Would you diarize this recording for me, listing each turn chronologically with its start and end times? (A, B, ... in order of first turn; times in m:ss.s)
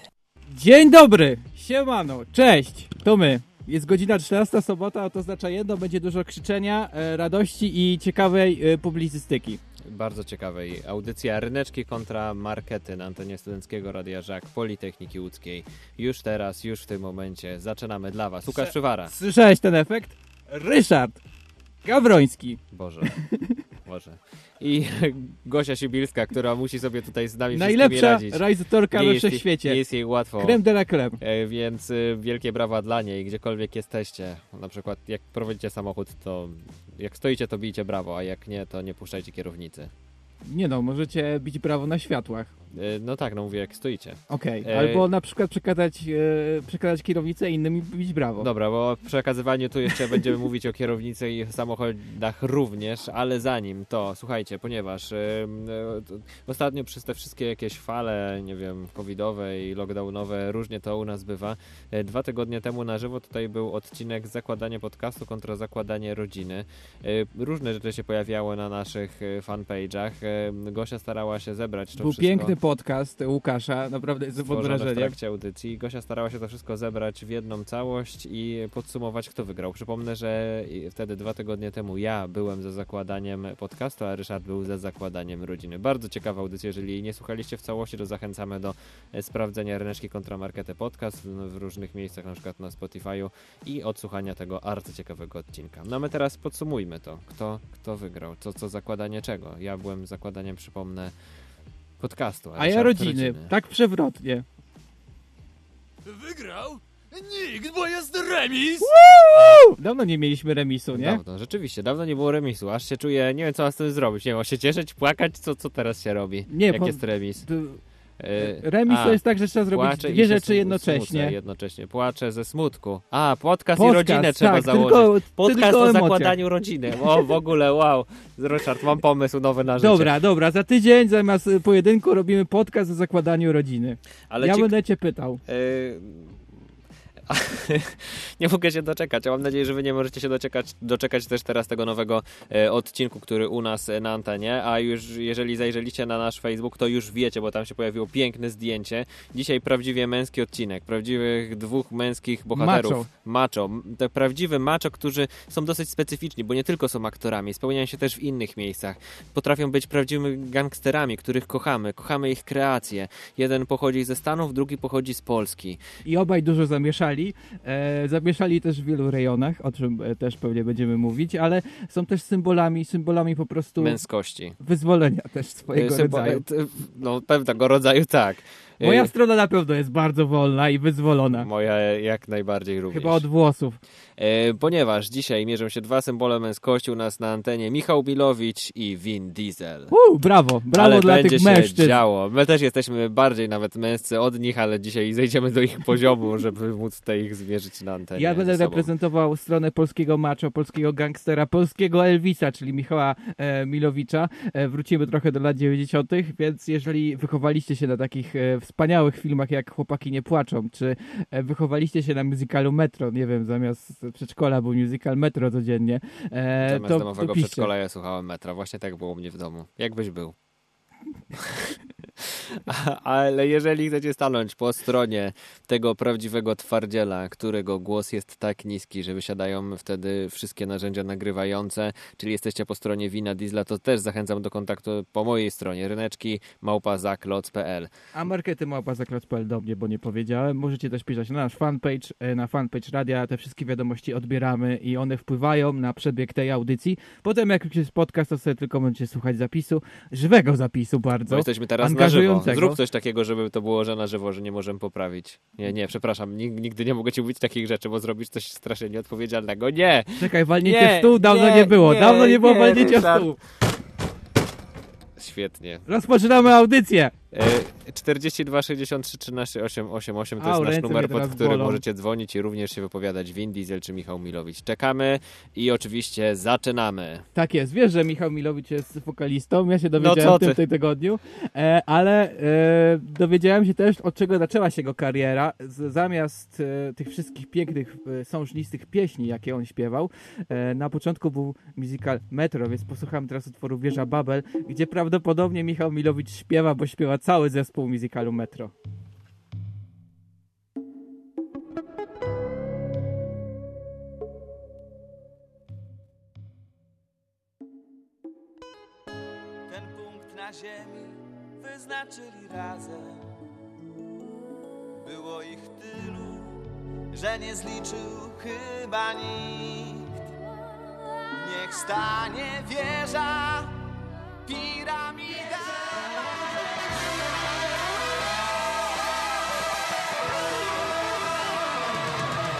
0:00.5-0:09.6 A
0:09.9-0:19.1 B
0:18.5-0:21.2 A
0:21.8-0:22.6 A
0:22.7-0:23.2 B
0:23.1-0:23.6 A
0:23.8-0:30.6 B
0:27.5-0:29.8 A
0:30.4-0:31.2 A
0:31.2-0:39.9 B
0:40.4-0:42.5 A
0:42.7-0:45.0 B
0:44.3-0:48.5 A
0:48.4-1:12.5 B
1:12.0-1:15.1 A
1:14.4-1:41.1 B
1:42.0-1:43.5 B
1:42.6-1:44.4 A
1:46.1-1:48.6 C
1:48.8-1:51.2 A
1:50.9-1:57.5 B
1:56.5-1:57.8 A
1:58.2-2:10.1 B
1:58.4-2:01.3 A
2:03.8-2:06.3 A
2:09.8-2:15.4 A
2:14.3-2:14.7 B
2:15.5-2:16.4 B
2:17.3-2:45.8 B
2:32.5-2:33.1 A
2:46.0-2:54.0 A
2:53.8-2:54.6 B
2:54.6-2:56.4 A
2:55.7-2:59.1 B
2:58.8-3:01.5 A
3:01.3-3:03.2 B
3:02.9-3:03.8 A
3:04.2-3:09.9 B
3:09.9-3:12.0 A
3:10.7-3:18.9 B
3:18.2-3:37.7 A
3:36.6-3:40.3 B
3:41.4-3:41.7 B
3:42.6-3:57.9 B
3:58.1-4:12.8 A
4:11.3-4:23.3 B
4:20.2-4:23.4 A
4:25.2-4:25.8 B
4:25.8-4:27.1 A
4:27.3-4:37.2 B
4:30.4-4:31.8 A
4:37.3-4:58.7 A
4:40.0-4:40.6 B
5:09.7-5:13.3 D
5:15.0-5:20.2 D
5:21.4-5:23.8 D
5:24.5-5:25.8 D